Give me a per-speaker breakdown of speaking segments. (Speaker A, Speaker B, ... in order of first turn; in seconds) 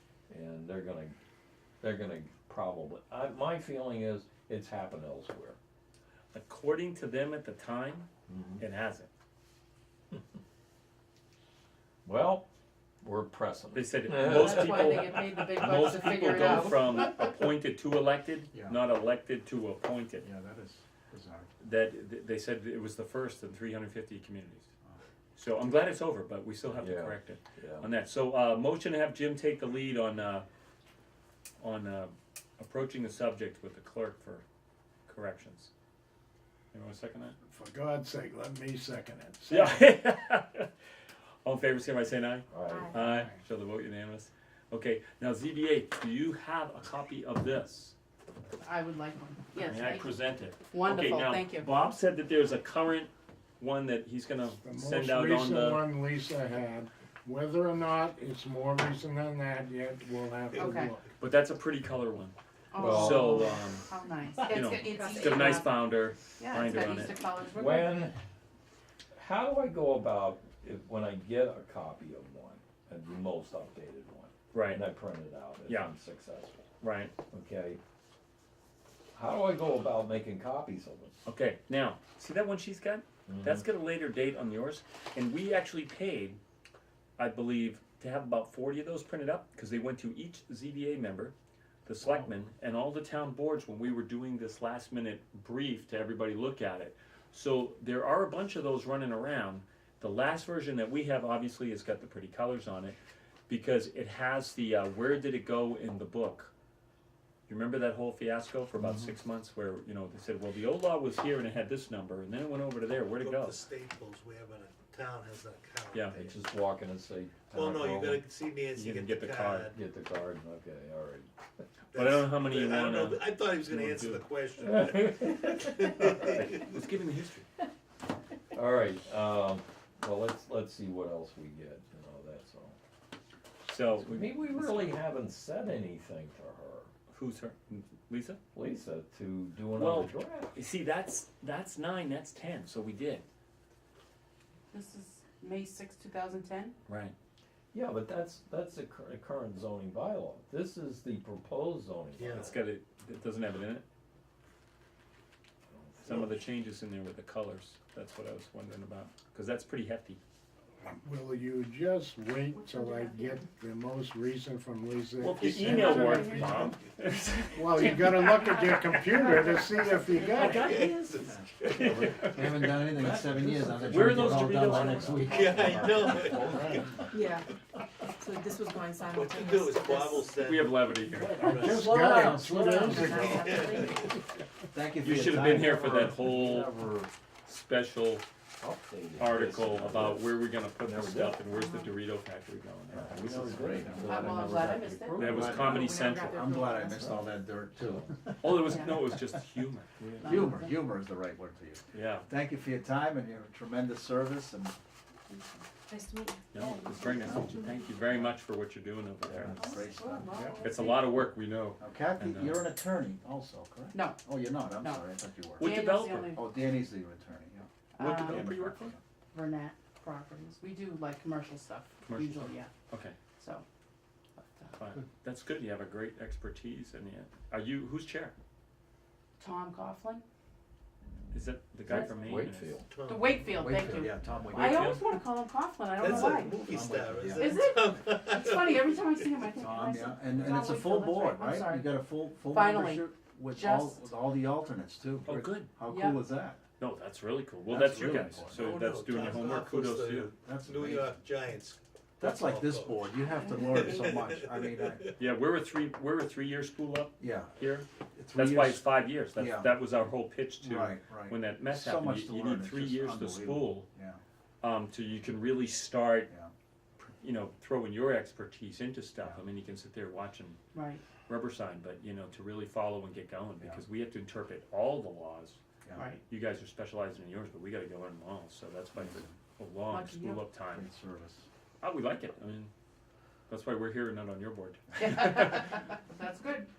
Speaker A: 0.3-1.1, 1.8-5.6, 8.3-8.6, 12.0-12.5, 13.0-15.2, 15.7-17.1, 26.7-27.9, 42.5-43.0, 62.8-63.5, 67.5-68.2, 69.1-76.6, 77.3-77.8, 79.1-81.1, 83.3-83.6, 116.1-118.2, 119.7-121.3, 124.6-126.1, 128.5-132.8, 133.9-136.9, 138.5-140.5, 147.7-152.5, 155.7-156.1, 173.0-175.3, 176.3-176.7, 185.4-187.1, 188.6-191.4, 192.9-195.6, 197.8-198.1, 231.8-232.8
Speaker B: 6.3-9.1, 13.7-20.3, 21.6-24.7, 25.4-30.4, 31.6-34.4, 35.1-35.7, 36.7-37.3, 39.5-40.7, 41.4-47.9, 49.6-55.9, 61.2-63.9, 64.5-67.2, 74.5-74.8, 75.7-75.9, 76.8-77.1, 81.2-86.4, 87.2-91.3, 91.8-103.0, 103.5-106.5, 107.5-113.6, 118.7-119.7, 121.9-124.2, 126.0-127.5, 133.7-135.0, 137.1-138.4, 139.7-143.2, 146.8-147.1, 152.3-153.8, 156.0-160.2, 165.2-168.3, 170.2-173.1, 173.8-175.7, 180.4-181.4, 185.0-186.7, 187.4-188.2, 189.2-193.9, 195.2-196.4, 198.4-200.2, 201.9-202.3, 206.5-209.8, 210.6-212.7, 215.6-216.3, 218.0-218.9, 222.1-223.2, 224.8-228.3, 231.3-232.8, 234.5-235.1, 245.2-245.7, 246.8-250.3, 255.2-263.9, 264.6-266.3, 267.0-270.6, 271.2-275.6, 276.3-280.9, 281.8-282.7, 283.5-285.7
Speaker C: 14.2-17.1, 48.6-51.8, 60.5-61.0, 62.7-68.1, 144.7-146.8, 162.6-163.4, 165.6-166.6, 167.7-168.6, 169.1-169.6, 181.5-181.8, 182.3-184.1, 194.0-197.3, 198.5-199.1, 200.2-200.9, 205.3-205.6, 209.5-211.1, 213.9-215.1, 215.6-216.5, 217.9-218.5, 219.3-222.7, 223.4-223.7, 224.3-224.8, 229.4-230.2, 231.9-232.4, 233.0-236.6, 237.3-244.0, 245.8-246.2, 270.7-271.0, 275.9-276.2, 279.9-280.4, 285.0-286.7
Speaker D: 18.5-18.8, 20.2-21.5, 171.2-177.2, 181.4-183.9, 184.7-186.1, 192.9-194.4, 195.2-199.4, 200.2-204.7, 207.0-207.4, 209.3-210.5, 211.8-219.0, 233.5-235.0, 236.0-237.7, 239.5-246.6, 247.7-248.6, 250.4-251.2, 252.2-255.1, 257.2-257.5, 258.1-259.8, 260.6-264.2, 275.8-276.1, 278.9-279.3, 280.7-281.5
Speaker E: 37.4-39.9, 42.9-43.4, 54.6-61.1, 160.9-166.8, 167.5-170.7, 181.2-183.9, 210.3-210.6
Speaker F: 64.5-65.7, 177.1-177.5, 178.2-180.3, 205.9-208.0
Speaker G: 113.1-116.3, 117.5-119.7, 121.9-126.8, 152.2-152.6, 170.3-172.1, 175.2-177.5, 179.1-182.0, 183.3-184.2, 232.8-233.7, 235.9-239.4, 248.5-255.1